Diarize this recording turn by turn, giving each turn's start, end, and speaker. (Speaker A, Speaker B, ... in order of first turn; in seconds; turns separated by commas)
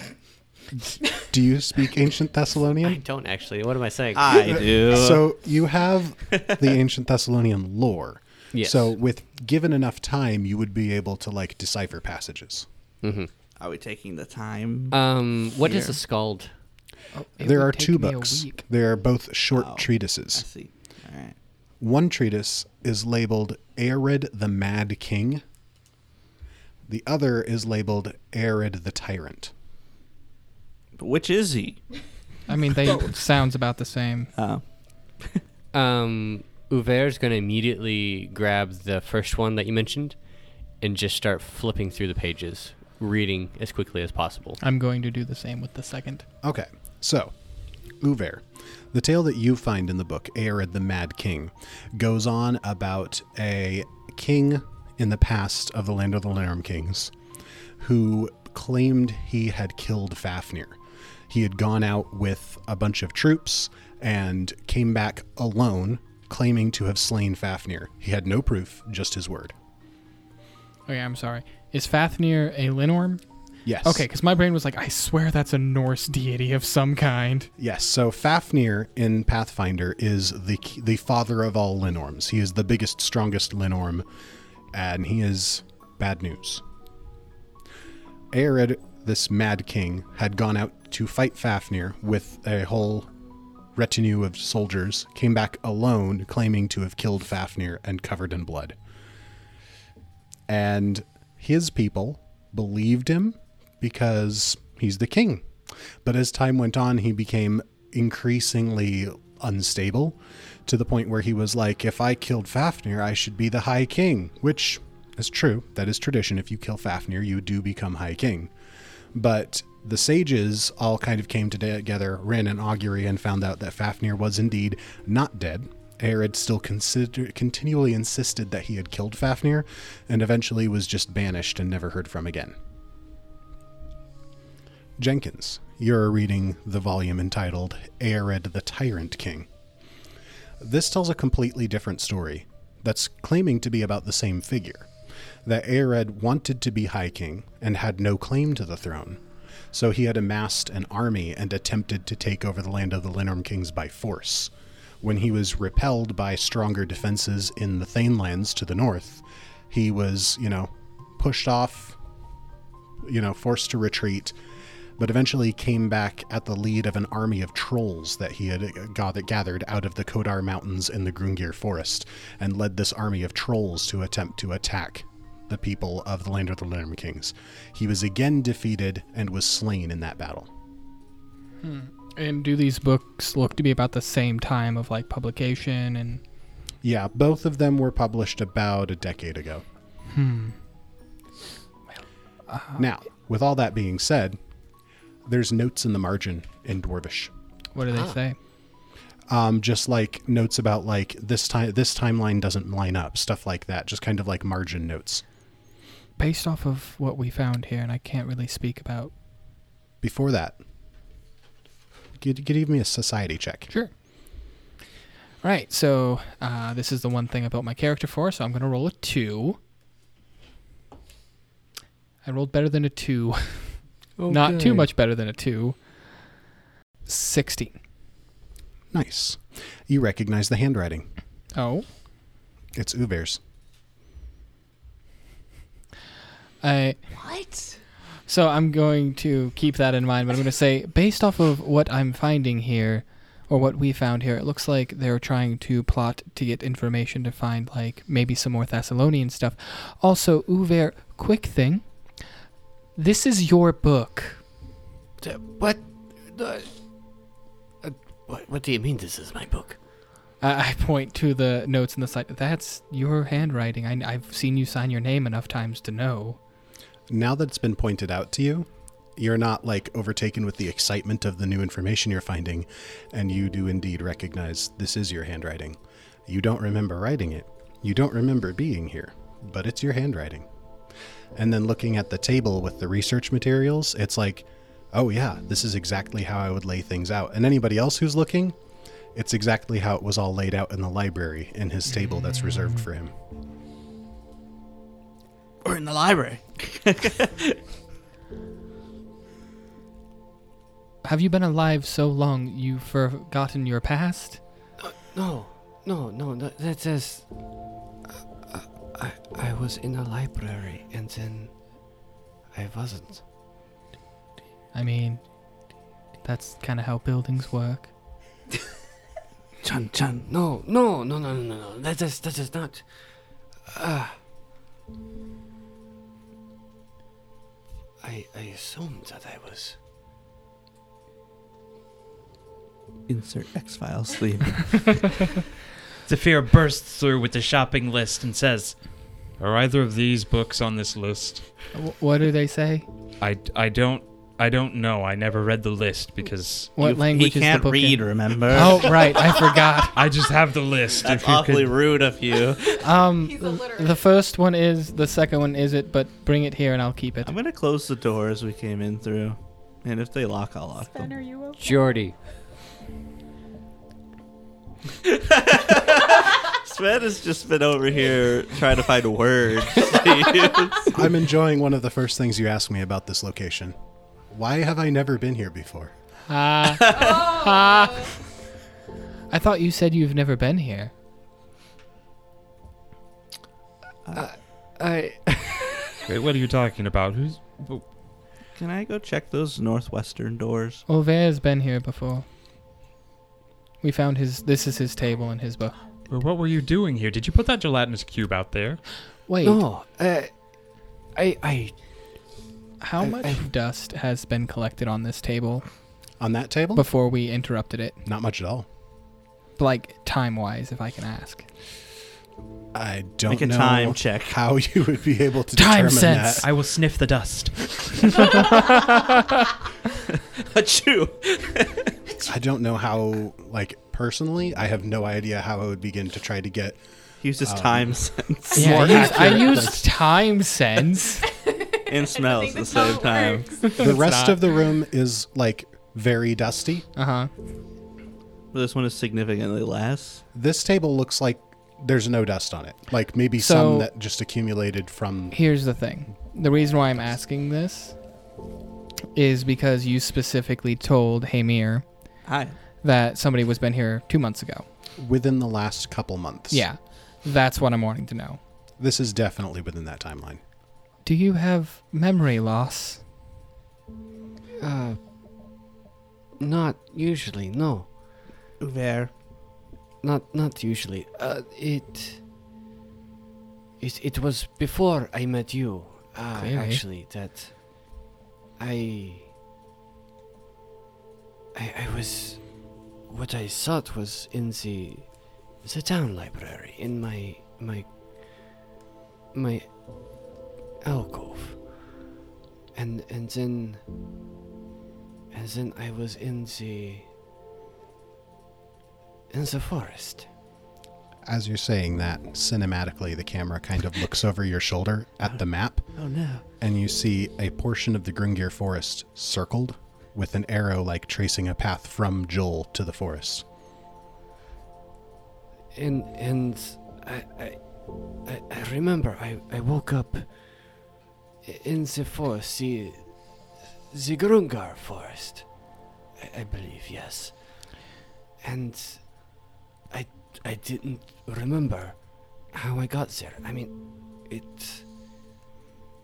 Speaker A: 0.8-3.0, Speaker B: 2.9-4.8, Speaker C: 4.1-5.3, Speaker A: 4.3-12.7, Speaker C: 6.3-6.6, Speaker B: 8.5-8.9, Speaker B: 13.0-13.3, Speaker C: 13.6-15.0, Speaker B: 14.9-16.5, Speaker C: 15.6-16.0, Speaker D: 17.1-18.6, Speaker A: 17.4-20.4, Speaker C: 19.5-21.4, Speaker A: 21.8-25.4, Speaker A: 26.9-29.5, Speaker C: 31.0-31.8, Speaker D: 32.5-34.3, Speaker C: 34.4-35.4, Speaker B: 35.7-40.2, Speaker B: 40.8-44.6, Speaker D: 44.6-46.2, Speaker A: 46.4-47.3, Speaker A: 48.0-57.1, Speaker A: 57.8-60.8, Speaker A: 61.3-69.5, Speaker D: 70.9-73.2, Speaker A: 73.6-74.0, Speaker D: 73.8-77.5, Speaker A: 77.6-84.0, Speaker A: 84.7-86.6, Speaker A: 88.3-93.1, Speaker A: 93.7-98.8, Speaker A: 100.5-105.5, Speaker A: 106.0-118.5, Speaker A: 119.1-132.5, Speaker A: 135.0-139.5, Speaker A: 140.6-144.9, Speaker A: 145.4-149.2, Speaker A: 149.7-162.0, Speaker A: 163.0-164.3, Speaker A: 165.0-180.5, Speaker D: 181.6-186.2, Speaker A: 186.8-189.6, Speaker D: 190.1-190.6, Speaker D: 192.5-192.8, Speaker A: 192.8-194.4, Speaker A: 195.2-197.3, Speaker D: 197.7-198.4, Speaker A: 199.3-205.2, Speaker D: 206.2-209.1, Speaker A: 210.0-210.6, Speaker A: 212.2-213.7, Speaker D: 215.4-219.6, Speaker D: 222.2-225.8, Speaker D: 227.1-227.7, Speaker A: 228.9-231.1, Speaker D: 231.6-231.8, Speaker A: 232.7-233.4, Speaker D: 236.6-237.0, Speaker E: 237.1-237.7, Speaker D: 238.3-251.8, Speaker D: 252.9-254.4, Speaker F: 255.2-256.8, Speaker F: 257.8-259.8, Speaker D: 260.4-266.4, Speaker A: 267.1-280.5, Speaker A: 281.3-288.6, Speaker A: 289.1-293.1, Speaker D: 291.9-292.8, Speaker C: 295.6-297.6, Speaker D: 301.0-304.4, Speaker F: 304.8-307.3, Speaker F: 308.5-311.5, Speaker F: 312.5-313.2, Speaker D: 314.7-315.2, Speaker D: 316.2-317.9, Speaker C: 319.6-320.3, Speaker F: 320.3-322.9, Speaker F: 323.6-324.2, Speaker F: 328.0-329.8, Speaker C: 333.1-335.1, Speaker G: 336.1-341.5, Speaker D: 341.7-342.9, Speaker G: 343.2-346.7, Speaker D: 346.8-350.0, Speaker C: 346.8-349.2, Speaker G: 349.9-351.8, Speaker C: 350.9-352.9, Speaker D: 352.8-357.3, Speaker E: 353.4-353.8, Speaker C: 357.2-361.2, Speaker E: 360.9-361.8, Speaker B: 361.6-362.1, Speaker C: 365.0-371.1, Speaker A: 370.9-373.8, Speaker A: 374.3-375.9, Speaker D: 376.3-378.1, Speaker C: 376.7-377.4, Speaker D: 379.3-380.9, Speaker F: 384.1-386.0, Speaker G: 386.0-387.9, Speaker C: 388.5-390.8, Speaker D: 390.9-392.2, Speaker D: 393.8-395.8, Speaker G: 396.1-398.8, Speaker D: 399.3-399.6, Speaker F: 399.4-400.3, Speaker F: 401.1-401.7, Speaker D: 402.8-405.7, Speaker F: 403.0-403.4, Speaker A: 406.2-406.8, Speaker D: 406.7-408.0, Speaker A: 408.0-408.6, Speaker D: 409.6-411.5, Speaker A: 412.7-416.5, Speaker C: 413.3-414.4, Speaker D: 415.6-416.4, Speaker G: 416.4-418.4, Speaker C: 420.0-422.2, Speaker A: 422.2-426.8, Speaker C: 427.2-429.6, Speaker A: 427.4-429.8, Speaker D: 428.5-431.2, Speaker C: 431.9-433.5, Speaker E: 431.9-433.9, Speaker D: 433.7-434.4, Speaker A: 433.8-436.8, Speaker D: 436.9-437.3, Speaker C: 438.5-440.2, Speaker A: 440.3-445.4, Speaker D: 443.4-443.9, Speaker D: 445.3-448.0, Speaker D: 449.1-451.9, Speaker C: 452.2-452.5, Speaker D: 452.8-454.6, Speaker A: 455.0-456.6, Speaker D: 456.5-458.4, Speaker A: 458.8-460.4, Speaker D: 461.0-463.0, Speaker F: 464.6-465.0, Speaker F: 466.4-468.0, Speaker C: 468.6-469.2, Speaker F: 470.0-472.2, Speaker F: 473.8-478.0, Speaker D: 476.3-476.8, Speaker F: 478.6-479.3, Speaker F: 481.5-488.5, Speaker F: 489.3-489.7, Speaker F: 490.8-491.7, Speaker F: 492.7-493.8, Speaker F: 495.3-497.1, Speaker F: 499.3-500.3, Speaker A: 501.2-505.9, Speaker C: 505.9-506.4, Speaker A: 506.6-513.4, Speaker F: 515.7-517.7, Speaker F: 518.2-520.3, Speaker F: 521.4-523.4, Speaker F: 523.9-525.5, Speaker F: 526.2-527.6, Speaker F: 528.4-529.3, Speaker F: 529.9-534.9